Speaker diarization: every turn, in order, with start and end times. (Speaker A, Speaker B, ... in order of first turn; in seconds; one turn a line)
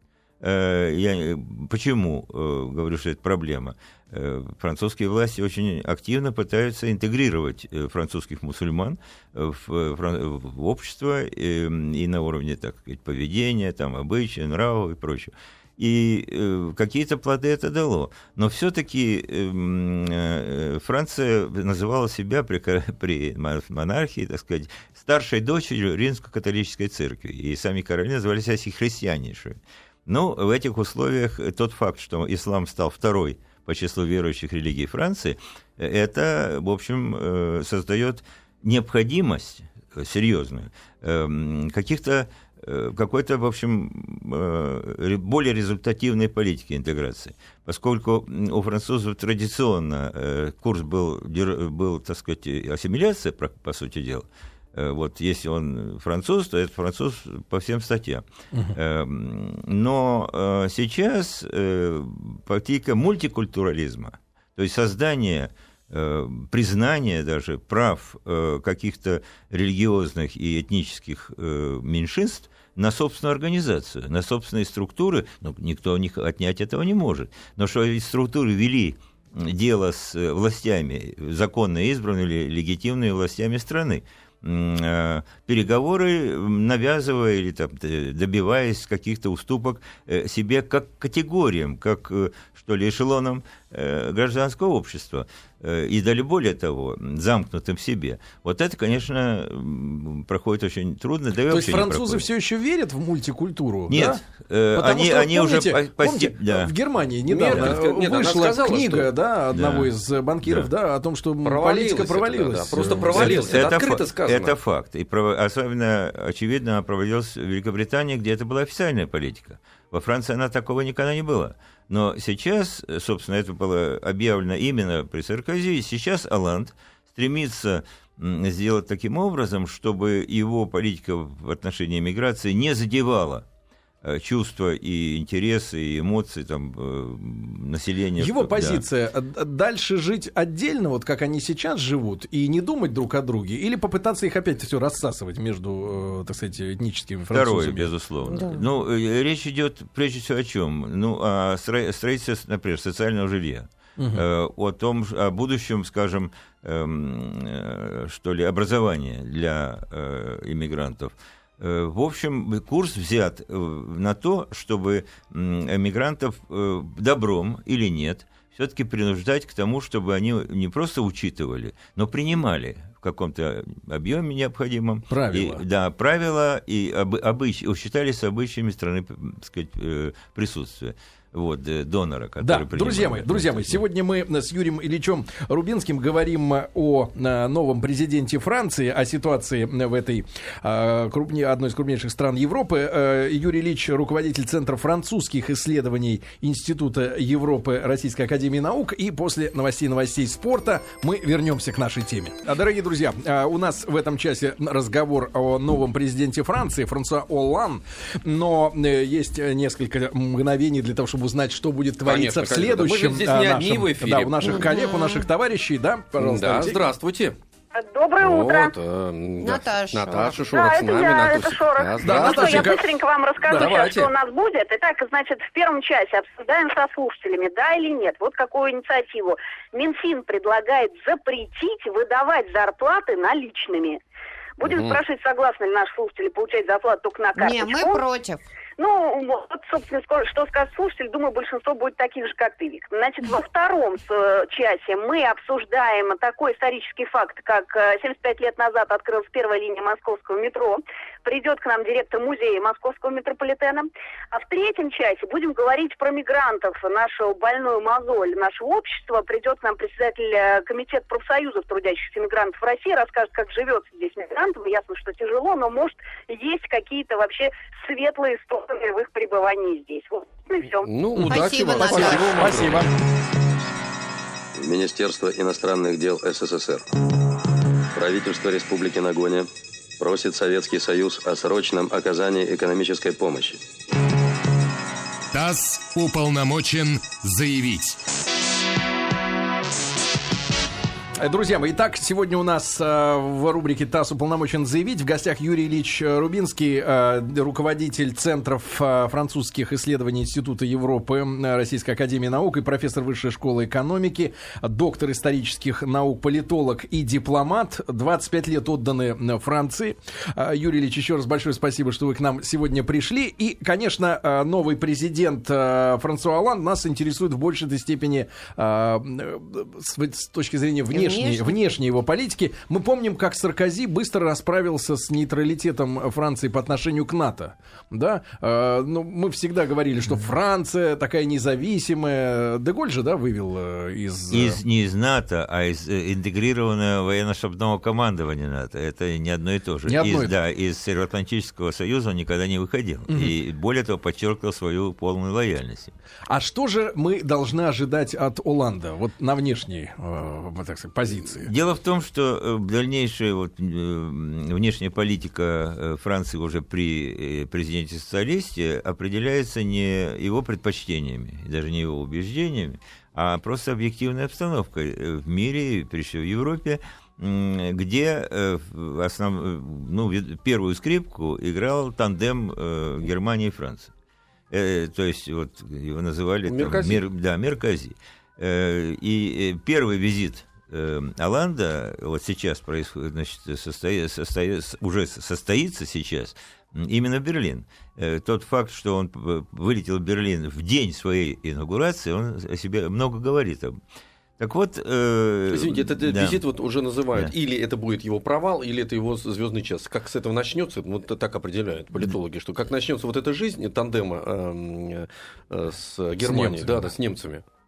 Speaker A: 0.4-102.3
Speaker B: 58.5-58.8
Speaker B: 101.5-104.2
Speaker A: 103.9-106.7
Speaker B: 104.8-113.6
Speaker C: 107.3-109.1
Speaker A: 109.5-109.9
Speaker C: 111.4-114.5
Speaker A: 112.8-133.5
Speaker A: 134.0-138.8
Speaker B: 138.2-147.9
Speaker A: 147.3-183.8
Speaker D: 148.3-148.7
Speaker B: 154.0-154.2
Speaker B: 175.1-175.6
Speaker B: 182.4-216.8
Speaker C: 212.1-214.7
Speaker D: 214.6-215.2
Speaker C: 216.2-217.4
Speaker E: 217.7-218.7
Speaker C: 218.2-222.8
Speaker D: 219.4-220.5
Speaker E: 220.4-234.0
Speaker B: 222.0-222.9
Speaker B: 223.4-223.8
Speaker C: 223.5-224.1
Speaker E: 234.6-238.0
Speaker C: 234.6-235.0
Speaker D: 237.4-238.4
Speaker E: 238.8-270.9
Speaker C: 270.8-272.9
Speaker B: 271.1-272.9
Speaker D: 271.3-272.6
Speaker F: 274.6-276.9
Speaker F: 277.9-279.5
Speaker F: 280.0-283.6
Speaker G: 285.3-288.0
Speaker B: 291.2-334.6
Speaker D: 320.9-321.5
Speaker A: 334.3-345.9
Speaker B: 339.9-340.3
Speaker B: 343.1-343.3
Speaker B: 346.3-351.5
Speaker A: 351.4-373.9
Speaker A: 374.5-393.8
Speaker C: 376.5-377.0
Speaker A: 394.4-396.4
Speaker C: 395.5-407.4
Speaker B: 406.2-406.9